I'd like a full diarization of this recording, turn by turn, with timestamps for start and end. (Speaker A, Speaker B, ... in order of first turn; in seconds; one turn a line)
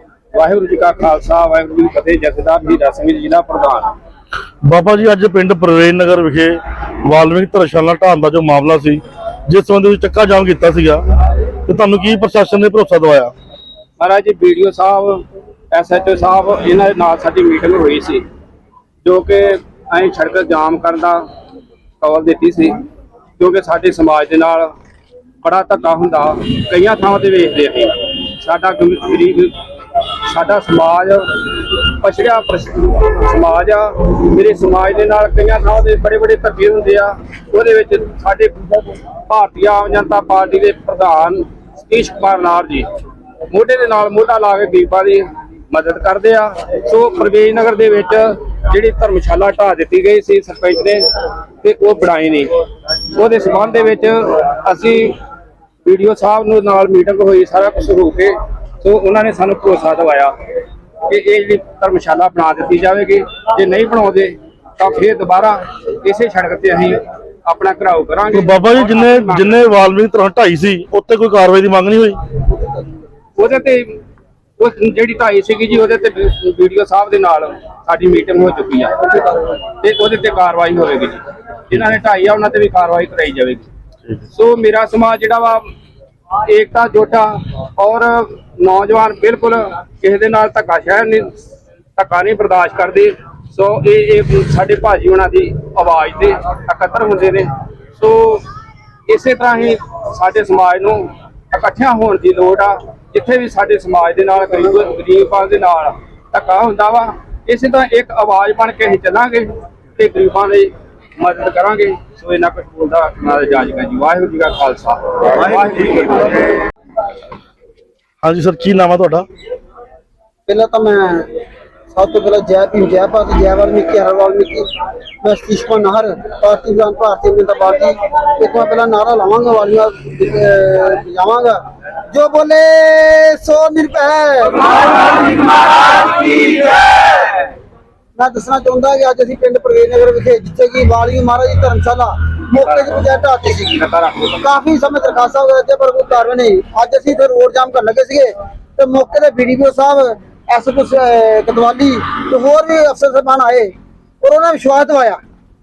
Speaker A: 0.3-3.9
Speaker B: 4.6-13.3
Speaker A: 14.0-18.2
Speaker A: 19.0-21.2
Speaker A: 22.0-22.8
Speaker A: 23.4-24.7
Speaker A: 25.4-42.9
Speaker A: 43.5-51.0
Speaker A: 51.6-52.5
Speaker A: 53.1-55.2
Speaker A: 55.9-60.4
Speaker A: 61.1-69.7
Speaker B: 68.3-72.2
Speaker A: 73.4-73.9
Speaker A: 74.6-83.7
Speaker A: 84.3-85.6
Speaker A: 86.4-91.3
Speaker A: 92.0-98.5
Speaker A: 99.1-116.6
Speaker B: 118.2-119.3
Speaker C: 120.5-121.3
Speaker C: 121.9-124.7
Speaker C: 125.2-131.6
Speaker C: 132.1-136.5
Speaker C: 138.2-143.8
Speaker A: 142.6-144.4
Speaker C: 144.4-153.7
Speaker C: 154.2-155.2